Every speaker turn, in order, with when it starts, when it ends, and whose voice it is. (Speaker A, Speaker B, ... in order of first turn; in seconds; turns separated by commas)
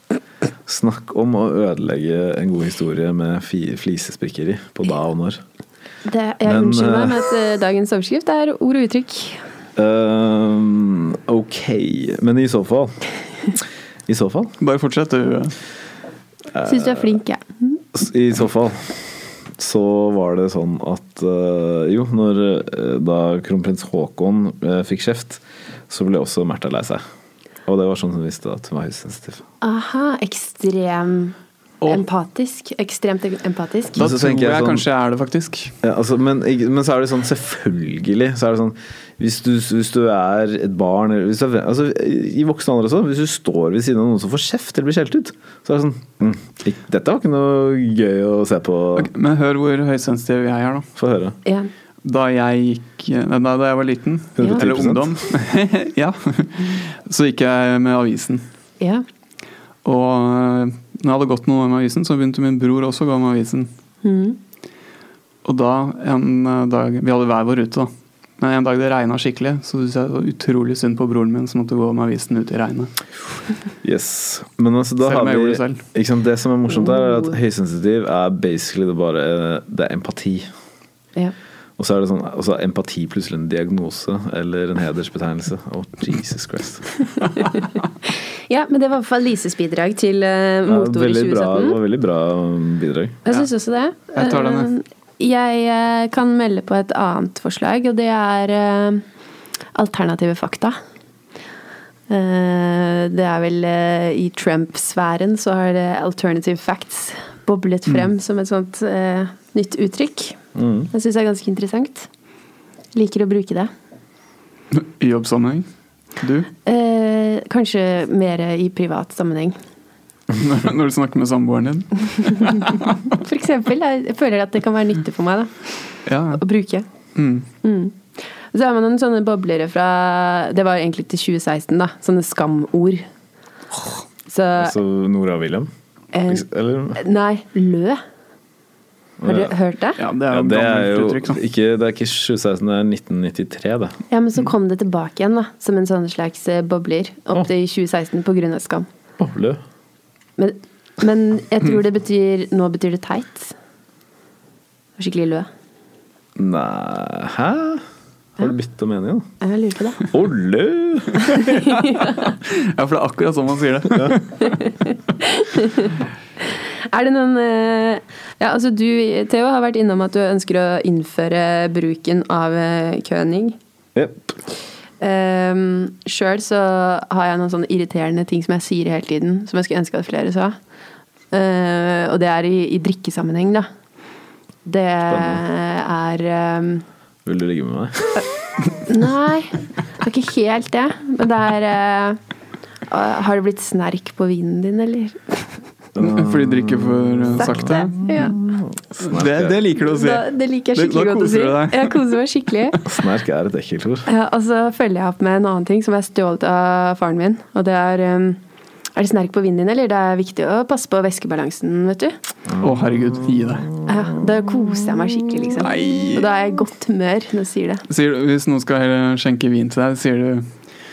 Speaker A: 0.7-5.4, Speaker B: 6.0-9.4, Speaker A: 6.4-7.2, Speaker A: 9.8-13.0, Speaker A: 14.1-14.5, Speaker C: 14.6-15.5, Speaker A: 16.5-17.2, Speaker B: 16.6-17.8, Speaker A: 17.9-27.0, Speaker A: 27.6-29.4, Speaker B: 29.6-31.3, Speaker B: 31.9-34.0, Speaker A: 34.0-34.9, Speaker C: 34.0-35.7, Speaker A: 35.8-49.1, Speaker C: 49.0-50.9, Speaker A: 51.0-51.4, Speaker C: 52.0-58.4, Speaker A: 54.4-55.2, Speaker C: 59.8-63.7, Speaker B: 64.0-64.4, Speaker C: 65.4-72.9, Speaker A: 73.8-80.5, Speaker C: 75.0-75.8, Speaker B: 76.7-77.3, Speaker A: 81.8-86.9, Speaker B: 87.4-91.8, Speaker A: 90.7-93.2, Speaker B: 93.2-99.0, Speaker C: 94.1-94.7, Speaker B: 99.7-100.8, Speaker B: 102.1-110.4, Speaker A: 110.5-110.9, Speaker B: 110.9-112.1, Speaker B: 112.9-113.7, Speaker C: 114.7-115.7, Speaker C: 116.2-116.5, Speaker B: 116.6-119.6, Speaker C: 120.3-123.0, Speaker B: 123.0-125.7, Speaker C: 126.0-126.4, Speaker B: 126.3-126.9, Speaker C: 127.1-127.5, Speaker B: 127.6-133.1, Speaker B: 134.2-134.8, Speaker A: 134.6-135.7, Speaker B: 136.1-136.4, Speaker A: 136.3-137.0, Speaker B: 136.9-138.0, Speaker A: 139.2-139.5, Speaker B: 139.2-140.0, Speaker C: 140.0-141.4, Speaker A: 140.3-144.0, Speaker B: 144.1-148.9, Speaker A: 149.2-149.6, Speaker B: 150.4-153.5, Speaker B: 155.0-155.5, Speaker A: 156.3-157.8, Speaker A: 158.4-159.2, Speaker B: 159.4-160.1, Speaker A: 160.1-161.3, Speaker C: 161.3-164.6, Speaker B: 161.3-162.3, Speaker B: 164.4-166.0, Speaker B: 166.6-173.6, Speaker A: 173.9-174.3, Speaker B: 175.0-180.6, Speaker B: 181.3-183.7, Speaker B: 184.6-186.8, Speaker A: 185.1-185.4, Speaker A: 187.2-188.3, Speaker B: 188.8-192.2, Speaker B: 192.9-195.5, Speaker A: 195.9-199.6, Speaker C: 196.0-198.1, Speaker B: 197.4-198.3, Speaker C: 199.0-202.0, Speaker B: 199.8-202.8, Speaker A: 202.8-204.1, Speaker B: 204.1-208.4, Speaker B: 208.9-212.2, Speaker A: 212.5-214.2, Speaker C: 212.6-213.7, Speaker B: 213.8-217.8, Speaker C: 215.6-216.3, Speaker C: 217.9-220.5